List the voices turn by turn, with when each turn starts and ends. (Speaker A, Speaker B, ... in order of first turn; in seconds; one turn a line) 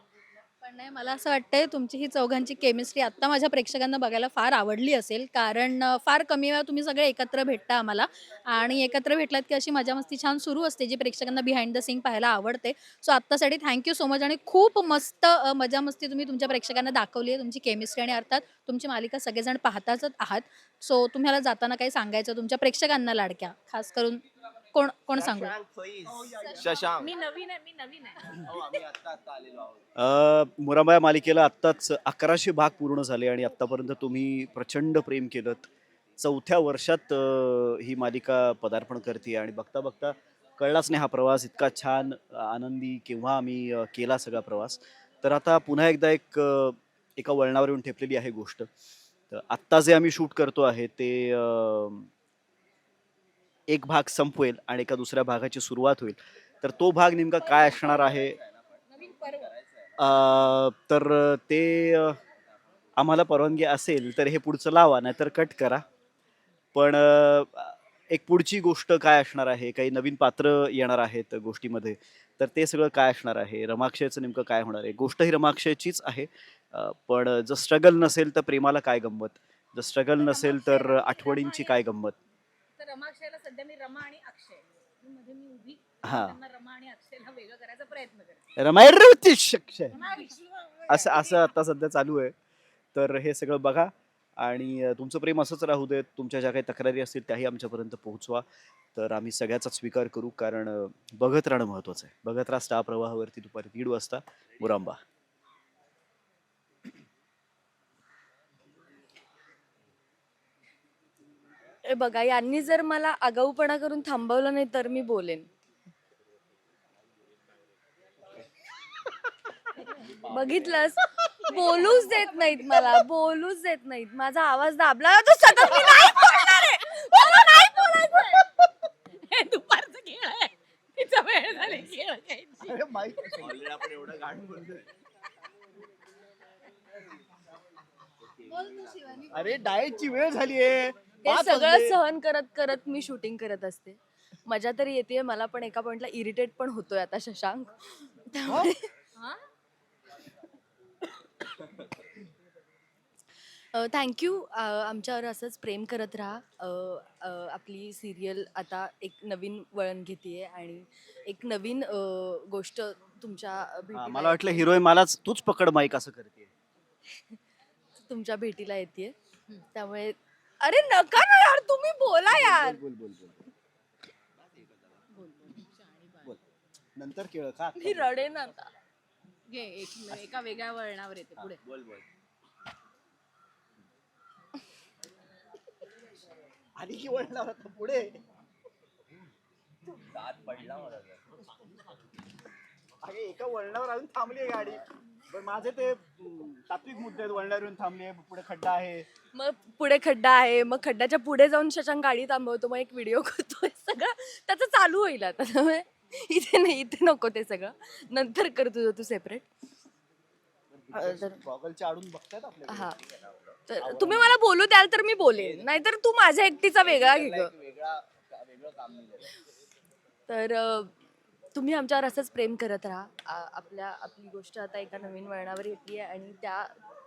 Speaker A: 0.6-24.2
Speaker A: 24.7-25.5
Speaker B: 25.1-27.1
Speaker C: 26.1-26.7
Speaker D: 27.0-28.4
Speaker B: 28.3-29.9
Speaker C: 29.9-48.7
Speaker C: 49.3-52.1
Speaker C: 53.7-58.4
Speaker D: 57.5-58.0
Speaker B: 57.8-59.9
Speaker D: 58.9-59.5
Speaker C: 60.0-62.2
Speaker C: 63.0-65.8
Speaker C: 66.7-82.2
Speaker D: 80.2-81.8
Speaker D: 82.8-88.4
Speaker C: 86.0-86.4
Speaker C: 88.6-90.0
Speaker D: 89.9-91.5
Speaker C: 90.9-92.3
Speaker C: 92.9-105.0
Speaker E: 111.9-115.5
Speaker E: 120.0-128.6
Speaker B: 120.1-120.7
Speaker D: 129.2-132.8
Speaker C: 132.6-133.6
Speaker B: 133.4-134.9
Speaker B: 138.2-139.3
Speaker A: 138.5-139.5
Speaker C: 139.3-142.0
Speaker E: 141.2-148.9
Speaker E: 153.7-164.7
Speaker C: 163.9-166.5
Speaker E: 168.1-169.1
Speaker E: 169.7-172.8
Speaker C: 172.3-173.5
Speaker B: 174.4-175.0
Speaker D: 175.1-176.3
Speaker C: 176.9-178.1
Speaker E: 177.8-178.7
Speaker D: 179.5-181.6
Speaker B: 181.6-182.1
Speaker C: 186.8-188.2
Speaker B: 189.9-191.4
Speaker C: 193.0-199.1
Speaker E: 199.3-209.5
Speaker C: 210.7-212.9
Speaker E: 210.9-211.4
Speaker E: 212.7-213.0
Speaker B: 212.9-213.6
Speaker E: 213.7-217.5
Speaker C: 213.8-214.4
Speaker B: 215.3-215.7
Speaker B: 216.8-219.3
Speaker E: 220.3-220.9
Speaker E: 221.5-226.7